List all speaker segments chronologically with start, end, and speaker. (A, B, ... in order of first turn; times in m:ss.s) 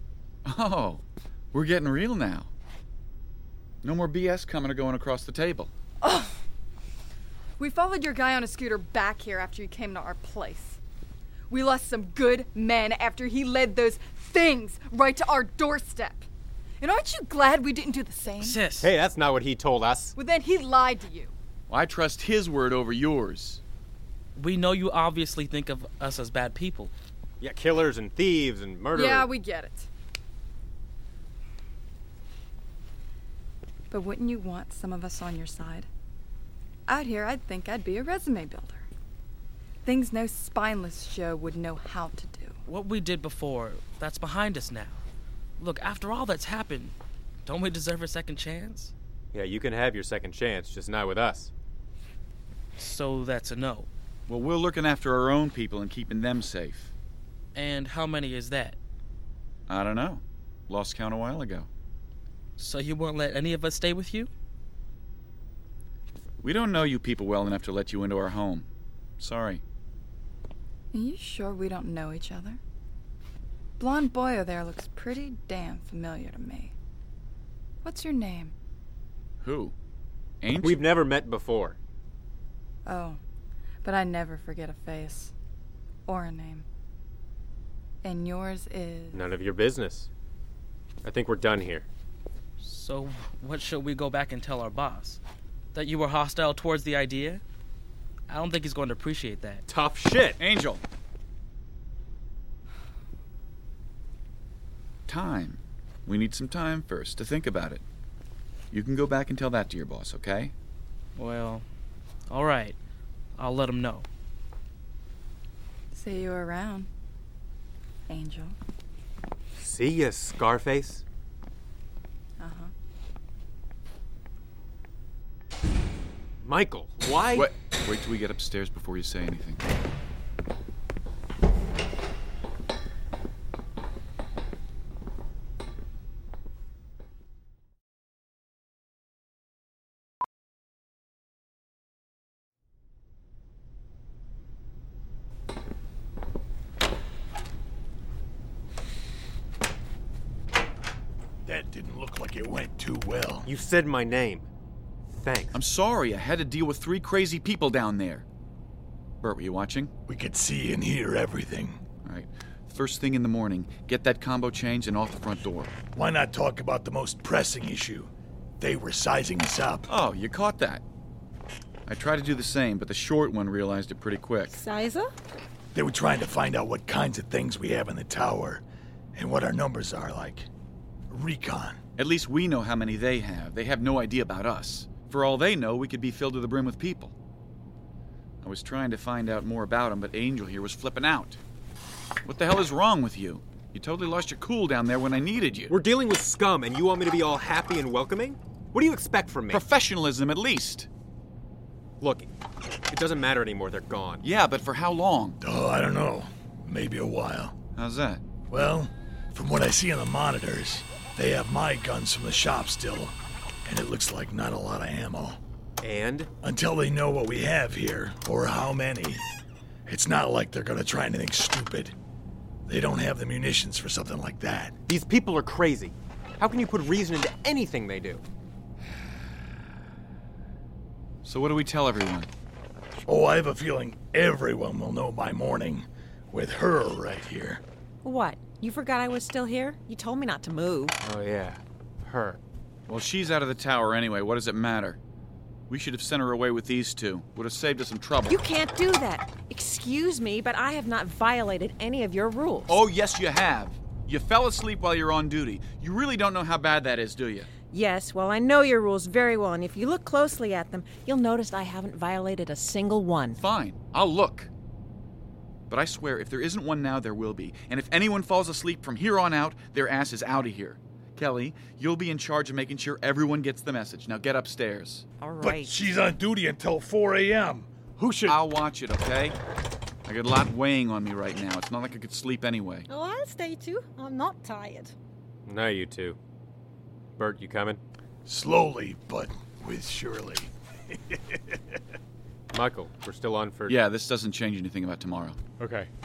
0:00.4-0:01.0 A
0:01.5-0:02.5 A
0:03.8-0:05.7 A
0:06.0-0:06.4 B
0:07.6-0:10.8 B
0:11.5-0:16.3 B
0:16.8-0:18.7 B
0:18.4-0:18.9 C
0:18.7-0:20.2 D
0:20.2-0:21.3 B
0:21.7-0:23.6 A
0:24.4-0:26.9 C
0:27.4-0:29.4 D
0:29.0-0:29.9 B
0:33.9-0:35.9 B
0:36.9-0:38.9 B
0:39.8-0:42.6 B
0:42.7-0:45.0 C
0:45.6-0:46.9 C
0:47.5-0:48.9 C
0:49.3-0:51.5 D
0:52.8-0:53.9 C
0:54.3-0:56.9 A
0:57.6-0:58.8 C
0:59.7-1:01.7 A
1:02.6-1:04.3 C
1:06.4-1:08.7 A
1:09.2-1:09.6 A
1:10.9-1:12.6 B
1:13.8-1:16.7 B
1:17.8-1:18.5 B
1:19.4-1:19.7 A
1:20.4-1:20.9 A
1:20.6-1:21.8 D
1:22.9-1:23.2 B
1:23.8-1:25.3 B
1:26.1-1:26.6 B
1:28.0-1:29.2 B
1:29.1-1:30.1 D
1:31.0-1:31.9 D
1:32.6-1:35.2 C
1:35.7-1:37.4 C
1:38.3-1:39.6 C
1:39.7-1:40.4 D
1:40.4-1:40.8 A
1:45.1-1:47.8 A
1:48.7-1:50.5 A
1:51.2-1:51.6 C
1:52.3-1:52.8 C
1:53.4-1:54.0 C
1:55.9-1:56.9 B
1:58.1-1:58.6 B
1:59.6-2:01.0 D
2:02.4-2:02.7 B
2:06.4-2:07.5 D
2:07.3-2:09.6 A
2:31.4-2:33.5 E
2:33.5-2:34.4 D
2:35.1-2:35.6 D
2:35.5-2:38.2 A
2:39.2-2:39.9 A
2:40.1-2:41.8 E
2:42.0-2:45.7 A
2:45.9-2:49.9 E
2:49.9-2:50.8 A
2:51.9-2:54.6 A
2:54.5-2:55.1 F
2:55.7-2:58.6 E
2:59.2-3:00.5 E
3:01.1-3:01.8 E
3:02.0-3:07.1 A
3:08.4-3:11.4 A
3:12.2-3:15.8 A
3:15.7-3:19.6 D
3:19.5-3:20.9 A
3:22.0-3:22.3 D
3:22.9-3:24.3 D
3:24.2-3:25.4 A
3:25.4-3:27.6 E
3:27.8-3:28.2 A
3:28.5-3:35.4 E
3:35.8-3:36.3 D
3:36.4-3:39.2 E
3:39.9-3:42.0 E
3:42.7-3:44.7 E
3:44.9-3:48.2 D
3:51.2-3:52.3 A
3:53.1-3:57.6 E
3:58.0-4:00.9 G
4:01.0-4:02.4 D
4:02.9-4:05.0 A
4:05.7-4:08.4 A
4:08.3-4:12.8 G
4:12.7-4:17.5 A
4:17.7-4:23.4 G
4:23.4-4:24.5 A
4:25.7-4:35.0 A
4:35.2-4:35.7 G
4:35.4-4:38.4 E
4:38.3-4:39.4 A
4:40.1-4:42.9 A
4:42.9-4:44.9 F
4:45.5-4:46.2 D
4:47.2-4:47.8 D
4:48.3-4:51.6 E
4:52.5-4:53.8 D
4:53.7-4:55.4 A
4:55.6-4:55.9 D